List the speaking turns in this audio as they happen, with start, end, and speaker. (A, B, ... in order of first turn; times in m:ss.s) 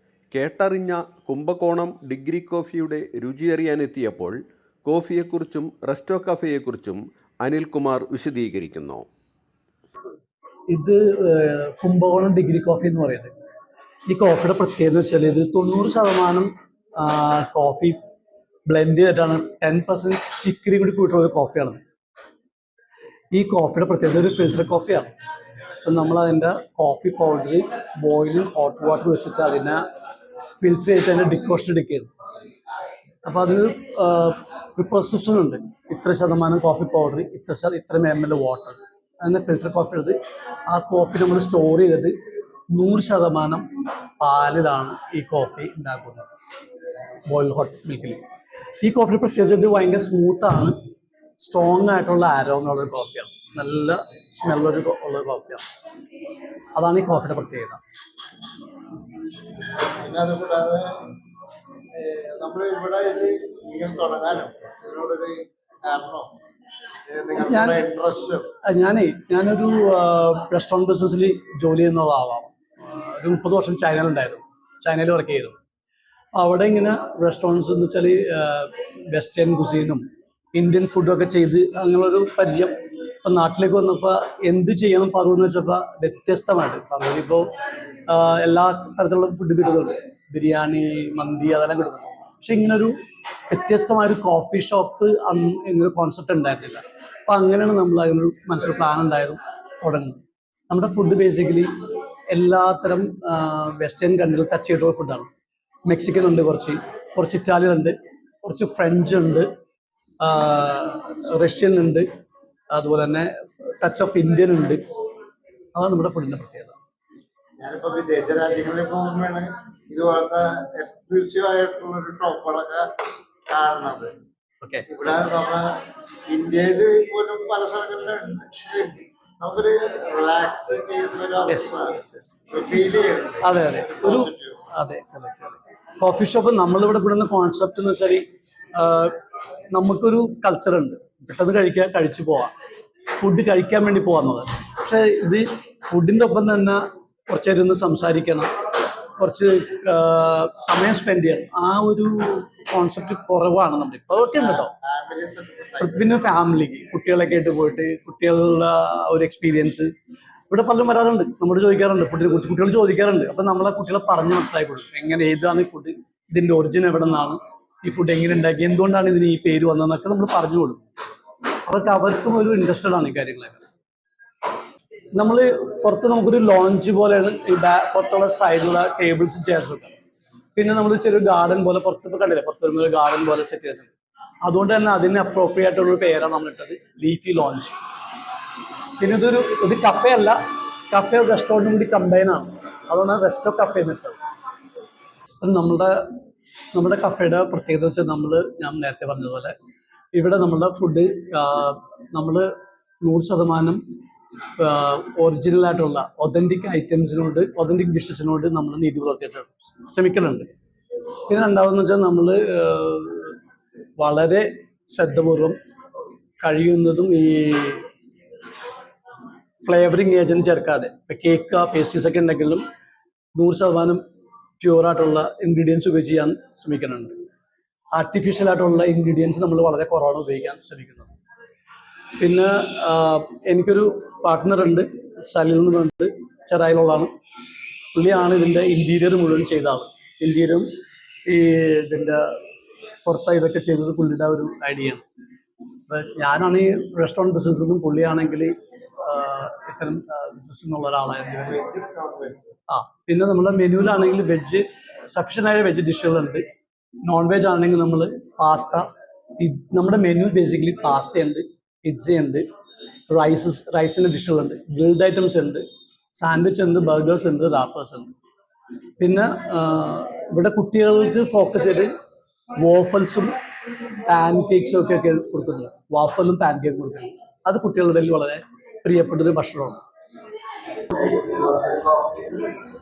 0:00.3-0:09.0 A
0:10.7-0:13.3 B
0:14.1-0:18.0 B
0:18.6-0:21.8 B
0:23.3-0:25.1 B
0:25.8-0:29.8 B
0:30.6-0:32.1 B
0:33.2-0:42.2 B
0:42.7-0:43.6 B
0:44.2-0:46.3 B
0:47.2-0:48.2 B
0:48.8-0:50.8 B
0:51.4-0:55.6 B
0:56.7-0:57.8 B
1:00.0-1:01.1 C
1:01.9-1:06.3 C
1:07.1-1:08.5 C
1:07.4-1:07.8 B
1:08.6-1:15.6 B
1:16.3-1:27.5 B
1:28.1-1:32.9 B
1:33.5-1:41.7 B
1:42.3-1:45.3 B
1:45.8-1:49.5 B
1:50.2-1:52.1 B
1:52.7-1:54.8 B
1:55.7-1:56.8 B
1:57.6-2:02.9 C
2:03.5-2:04.1 C
2:04.9-2:05.7 C
2:06.3-2:12.0 C
2:11.5-2:12.4 B
2:12.5-2:14.6 C
2:13.4-2:19.2 B
2:19.7-2:22.5 B
2:23.1-2:28.5 B
2:29.2-2:34.7 B
2:34.3-2:36.1 C
2:35.8-2:39.9 B
2:40.5-2:50.8 B
2:51.6-2:53.6 B
2:55.1-2:59.9 B
3:00.6-3:03.9 B
3:04.4-3:07.8 B
3:09.0-3:10.4 B
3:10.9-3:14.2 B
3:15.4-3:16.1 B
3:16.7-3:19.5 B
3:20.1-3:23.8 B
3:24.6-3:30.5 B
3:31.3-3:33.4 B
3:34.0-3:35.6 B
3:36.4-3:37.8 B
3:39.6-3:42.6 B
3:43.3-3:44.0 B
3:44.6-3:47.2 B
3:47.9-3:51.1 B
3:52.2-3:57.1 B
3:57.9-4:00.7 B
4:01.2-4:02.3 B
4:03.0-4:05.0 B
4:05.9-4:11.6 B
4:11.4-4:12.4 C
4:12.7-4:16.4 B
4:17.0-4:22.4 B
4:23.1-4:28.1 B
4:29.0-4:31.9 B
4:32.6-4:33.4 B
4:34.0-4:39.8 B
4:40.9-4:42.6 C